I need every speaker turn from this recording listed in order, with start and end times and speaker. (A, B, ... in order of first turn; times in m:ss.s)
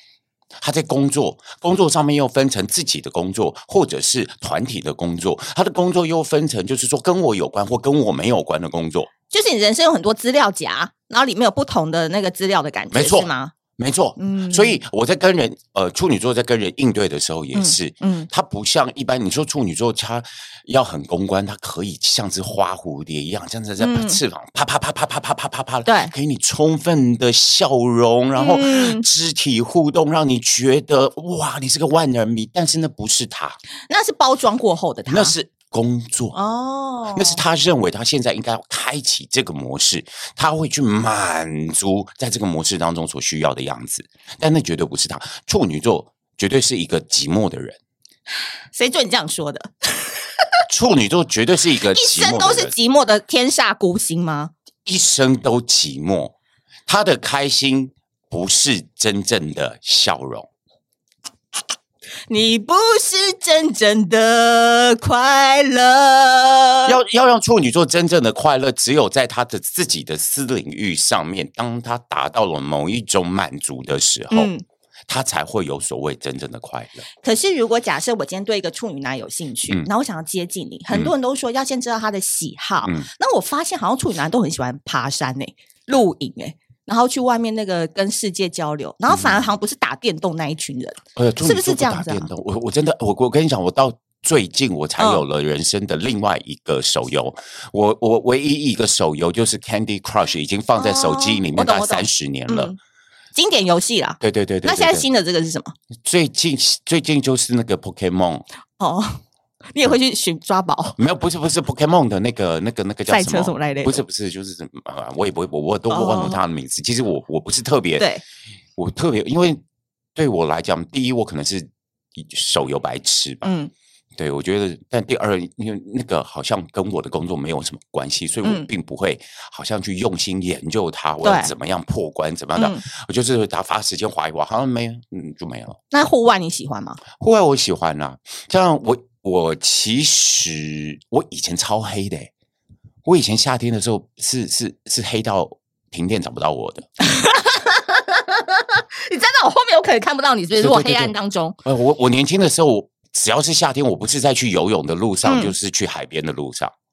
0:00.6-0:09.1 A
0:09.3-0:13.5 B
0:12.9-0:33.6 A
0:14.2-0:14.8 B
0:17.5-0:18.3 B
0:23.8-0:24.2 B
0:25.9-0:26.1 B
0:28.4-0:29.1 B
0:33.9-0:35.3 B
0:35.1-0:36.4 A
0:36.3-0:37.4 B
0:37.1-0:47.8 A
0:48.7-0:50.2 B
0:50.7-0:52.7 A
0:51.9-0:54.5 B
0:54.9-0:56.3 A
0:56.9-1:00.5 A
1:02.3-1:07.0 B
1:06.9-1:14.5 A
1:14.3-1:14.6 B
1:15.1-1:17.0 A
1:17.2-1:32.3 B
1:29.1-1:29.5 A
1:31.2-1:42.7 A
1:35.0-1:35.2 B
1:40.8-1:42.8 B
1:43.4-1:45.8 B
1:44.2-1:45.1 A
1:46.0-1:48.5 A
1:48.8-1:51.0 B
1:51.0-1:58.1 A
1:53.1-1:54.0 B
1:55.9-1:56.4 B
1:58.8-1:59.6 A
2:00.2-2:03.5 A
2:03.4-2:03.7 B
2:04.2-2:15.8 A
2:08.4-2:08.7 B
2:11.2-2:11.5 B
2:12.6-2:12.8 B
2:15.9-2:17.0 B
2:17.1-2:22.3 A
2:23.0-2:26.9 A
2:27.0-2:31.6 B
2:30.6-2:31.1 A
2:31.6-2:36.7 A
2:35.2-2:35.5 B